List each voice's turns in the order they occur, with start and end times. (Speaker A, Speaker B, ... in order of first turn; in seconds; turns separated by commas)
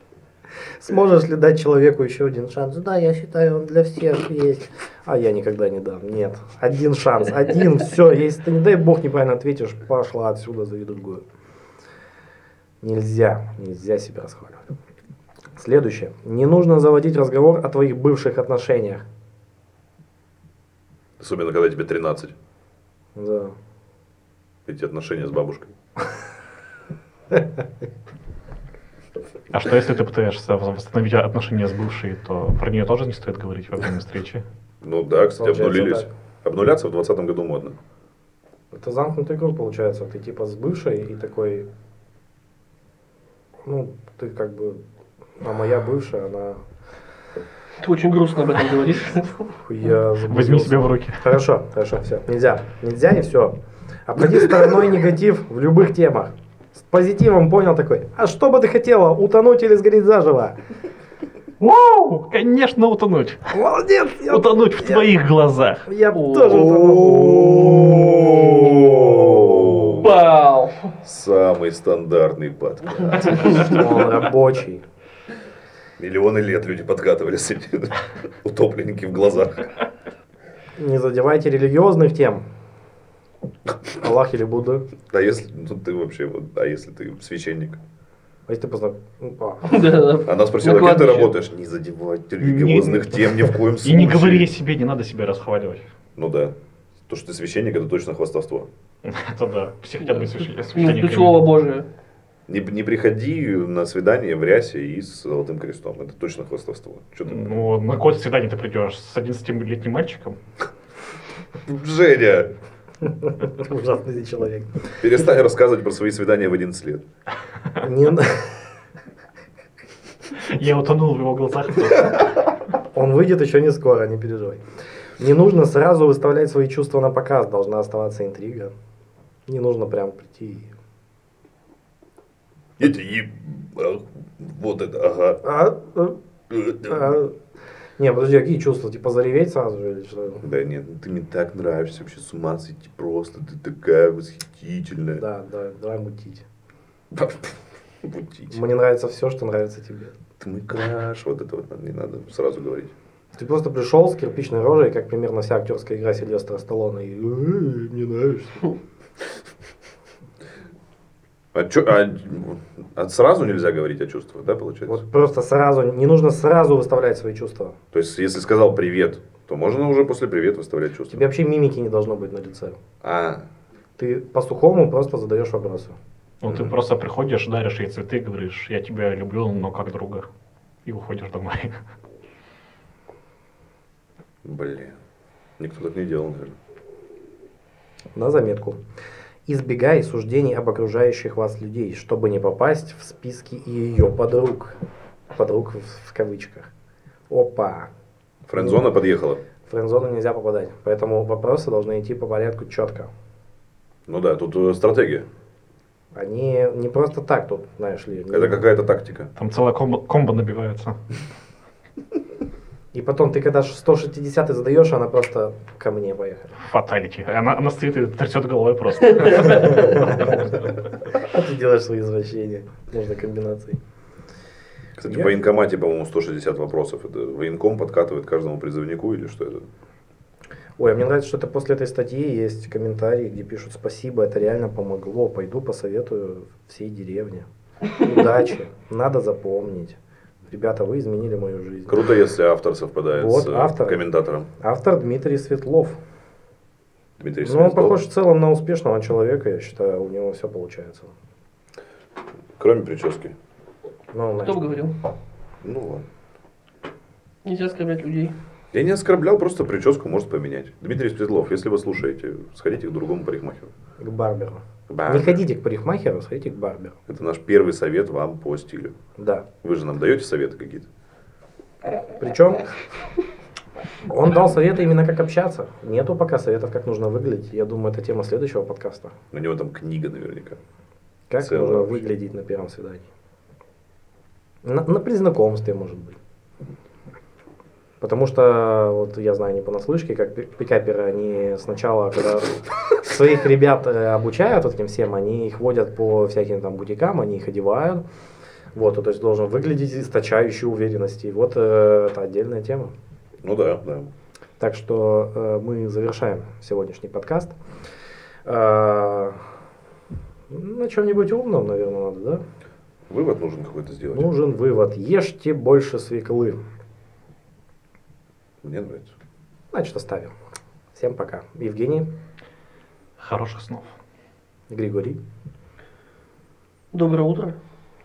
Speaker A: 0.8-11.2, Speaker A: 12.8-14.7, Speaker A: 15.6-19.1, Speaker B: 21.2-22.4, Speaker A: 23.1-23.6, Speaker B: 24.6-25.7, Speaker C: 29.5-34.4, Speaker B: 34.8-37.8, Speaker A: 35.4-36.1, Speaker A: 38.7-41.7, Speaker A: 43.6-44.8, Speaker A: 45.4-46.6, Speaker D: 47.8-49.4, Speaker A: 49.5-53.5, Speaker C: 50.3-51.2, Speaker A: 54.1-60.6, Speaker C: 61.6-63.5, Speaker A: 63.5-65.1, Speaker C: 64.3-65.9, Speaker A: 65.9-70.0, Speaker D: 66.1-66.7, Speaker B: 66.5-70.2, Speaker D: 70.0-70.9, Speaker B: 71.0-74.1, Speaker D: 73.3-73.6, Speaker A: 73.5-74.8, Speaker B: 76.0-79.8, Speaker A: 80.8-82.4, Speaker A: 84.0-84.9, Speaker B: 85.1-87.8, Speaker A: 88.5-89.8, Speaker D: 89.6-91.3, Speaker B: 90.2-94.5, Speaker C: 92.4-95.9, Speaker B: 96.2-96.5, Speaker B: 97.1-98.7, Speaker C: 99.0-101.4, Speaker D: 100.0-101.8, Speaker B: 102.5-107.5, Speaker C: 107.3-110.4, Speaker B: 111.7-112.5, Speaker A: 113.0-114.9, Speaker B: 115.0-117.0, Speaker A: 117.8-118.6, Speaker C: 120.4-122.3, Speaker A: 122.9-124.6, Speaker A: 125.2-128.7, Speaker A: 129.5-130.7, Speaker B: 132.8-135.4, Speaker A: 135.4-136.2, Speaker B: 136.5-137.2, Speaker A: 136.8-137.4, Speaker A: 138.0-140.4, Speaker B: 140.4-145.2, Speaker A: 145.2-146.4, Speaker B: 147.1-148.6, Speaker A: 148.5-150.1, Speaker B: 150.4-152.9, Speaker A: 153.4-158.7, Speaker B: 161.5-165.0, Speaker A: 164.9-167.8, Speaker B: 167.9-171.2, Speaker A: 171.1-172.8, Speaker B: 173.0-173.5, Speaker A: 174.0-176.0, Speaker C: 176.4-180.3, Speaker B: 176.4-176.8, Speaker C: 180.8-181.8, Speaker B: 184.4-185.0, Speaker B: 185.6-186.6, Speaker A: 188.1-188.8, Speaker A: 189.5-194.8, Speaker A: 195.3-196.7, Speaker A: 197.3-197.9, Speaker B: 198.5-199.4, Speaker A: 199.7-203.1, Speaker B: 204.1-205.3, Speaker A: 206.1-208.6, Speaker B: 208.3-209.3, Speaker C: 209.4-211.0, Speaker A: 212.9-216.5, Speaker C: 216.6-220.5, Speaker A: 219.4-220.6, Speaker A: 221.1-223.8, Speaker B: 225.0-229.7, Speaker A: 225.1-225.4, Speaker A: 230.8-237.5, Speaker A: 238.0-240.0, Speaker A: 240.5-242.0, Speaker B: 241.9-244.5, Speaker A: 243.2-244.0, Speaker A: 244.6-246.0, Speaker B: 247.2-248.0, Speaker A: 247.4-251.1, Speaker B: 252.6-253.3, Speaker A: 254.1-254.7, Speaker D: 254.4-254.9, Speaker B: 255.6-256.1, Speaker D: 257.4-258.4, Speaker B: 258.7-263.7, Speaker A: 264.0-267.0, Speaker B: 264.9-265.4, Speaker B: 267.1-269.0, Speaker A: 269.2-269.4, Speaker B: 269.6-270.9, Speaker A: 272.2-272.6, Speaker A: 274.1-279.1, Speaker B: 279.3-280.6, Speaker A: 281.3-283.1, Speaker B: 281.4-282.0, Speaker A: 284.6-286.2, Speaker A: 288.0-298.0, Speaker A: 298.8-302.9, Speaker B: 303.4-304.1, Speaker A: 304.6-307.5, Speaker A: 308.5-309.4, Speaker A: 310.5-312.4, Speaker B: 313.1-314.3, Speaker A: 314.1-316.6, Speaker B: 318.6-319.1, Speaker A: 319.7-320.3, Speaker A: 320.9-322.1, Speaker C: 323.2-323.9, Speaker A: 324.7-325.2, Speaker D: 326.9-327.6